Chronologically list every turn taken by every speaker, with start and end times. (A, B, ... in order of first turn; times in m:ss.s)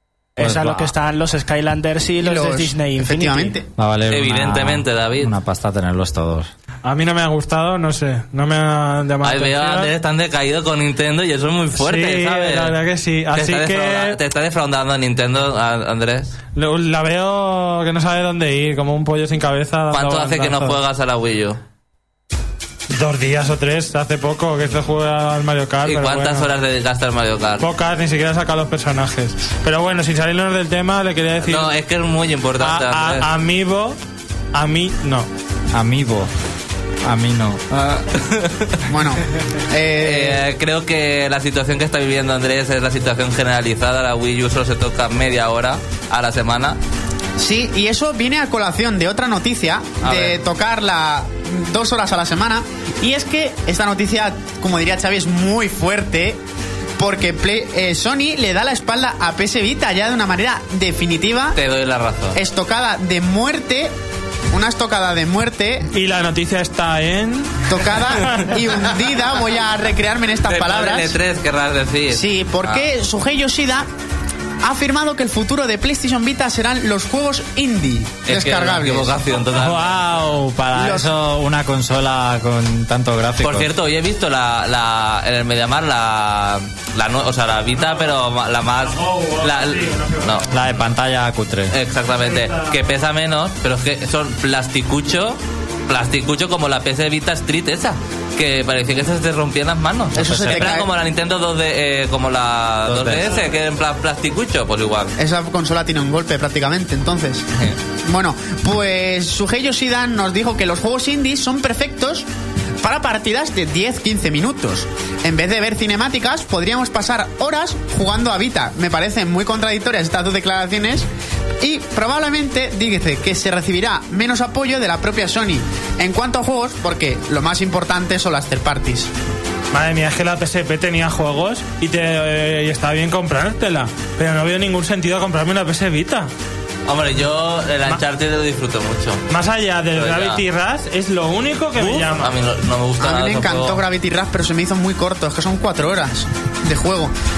0:00.4-0:03.6 A
0:00.4-0:00.9 B
0:02.2-0:03.7 C
0:03.8-0:06.5 B
0:04.1-0:05.3 D
0:06.8-0:09.9 E
0:09.2-0:12.8 D
0:11.8-0:14.2 E
0:13.3-0:16.4 D
0:16.6-0:20.8 E
0:19.9-0:21.6 D
0:22.9-0:26.5 E
0:25.8-0:27.7 D
0:27.6-0:31.7 E
0:31.4-0:33.3 D
0:32.6-0:34.0 E
0:34.5-0:35.3 E
0:35.7-0:36.3 B
0:37.0-0:37.6 B
0:37.7-0:38.8 D
0:38.9-0:40.4 C
0:40.0-0:46.8 D
0:47.4-0:56.4 C
0:50.0-0:50.4 D
0:57.0-1:01.6 C
1:01.6-1:02.4 D
1:02.4-1:03.9 C
1:04.5-1:05.9 C
1:05.9-1:07.6 E
1:07.7-1:11.2 C
1:10.5-1:12.8 D
1:12.1-1:13.9 C
1:14.6-1:19.2 C
1:18.3-1:20.0 D
1:19.6-1:23.7 B
1:20.7-1:21.1 C
1:23.4-1:30.5 D
1:27.8-1:28.1 E
1:28.7-1:30.5 E
1:30.5-1:31.7 B
1:31.7-1:45.2 D
1:32.2-1:32.8 E
1:40.2-1:40.9 C
1:40.2-1:40.8 B
1:42.9-1:43.4 B
1:45.2-1:47.4 C
1:48.0-1:52.3 C
1:52.8-2:01.1 C
2:01.6-2:09.1 C
2:09.7-2:16.3 E
2:16.9-2:19.2 D
2:19.3-2:22.4 E
2:20.0-2:20.4 D
2:21.8-2:23.8 D
2:23.0-2:27.1 C